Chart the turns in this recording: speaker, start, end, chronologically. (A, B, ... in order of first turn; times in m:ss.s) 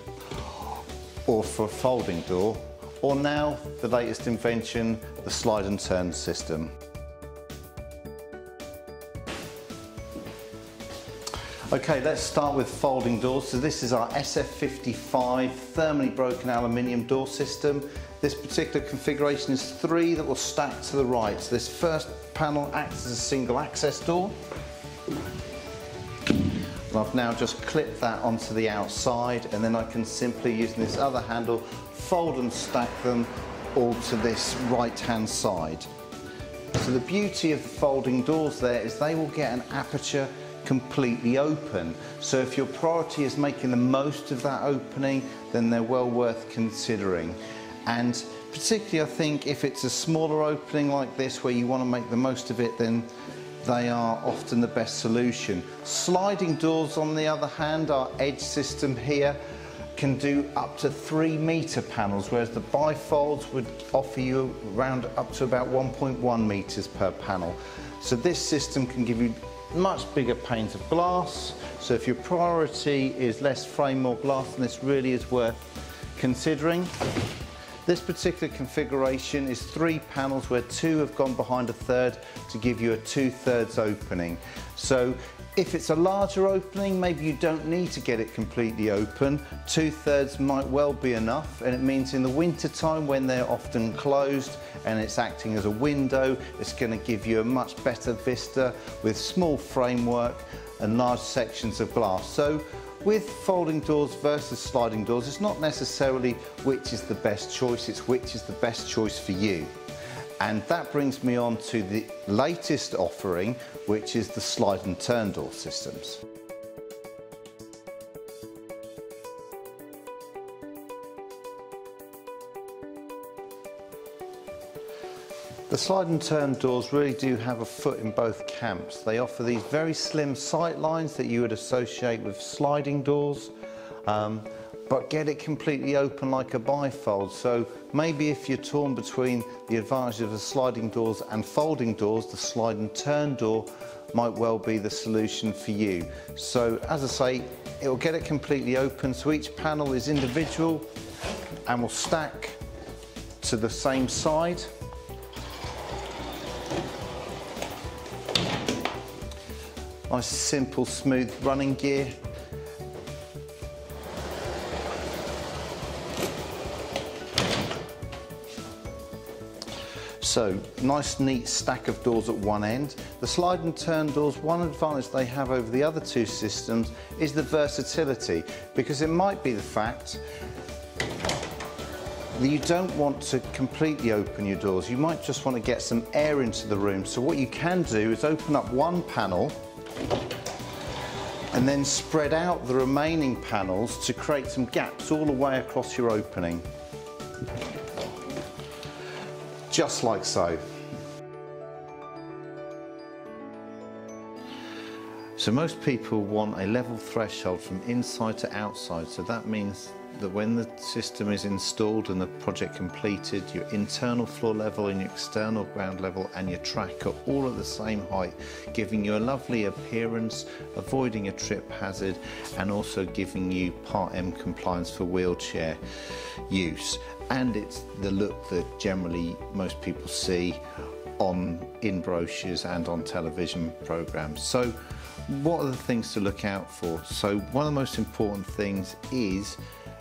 0:00.5-0:06.7 A
0:11.7-0:24.3 A
0:26.9-0:35.9 A
0:36.7-0:53.1 A
0:53.6-0:59.4 A
1:00.0-1:16.9 A
1:17.8-1:49.7 A
1:50.4-1:56.2 A
2:05.7-2:13.5 A
2:14.0-2:30.8 A
2:31.6-2:32.6 A
2:33.4-2:34.7 A
2:40.1-2:42.2 A
2:50.2-3:00.2 A
3:02.4-3:09.6 A
3:11.5-3:16.6 A
3:19.7-3:20.6 A
3:25.4-3:45.8 A
3:46.5-3:50.6 A
3:51.2-3:59.6 A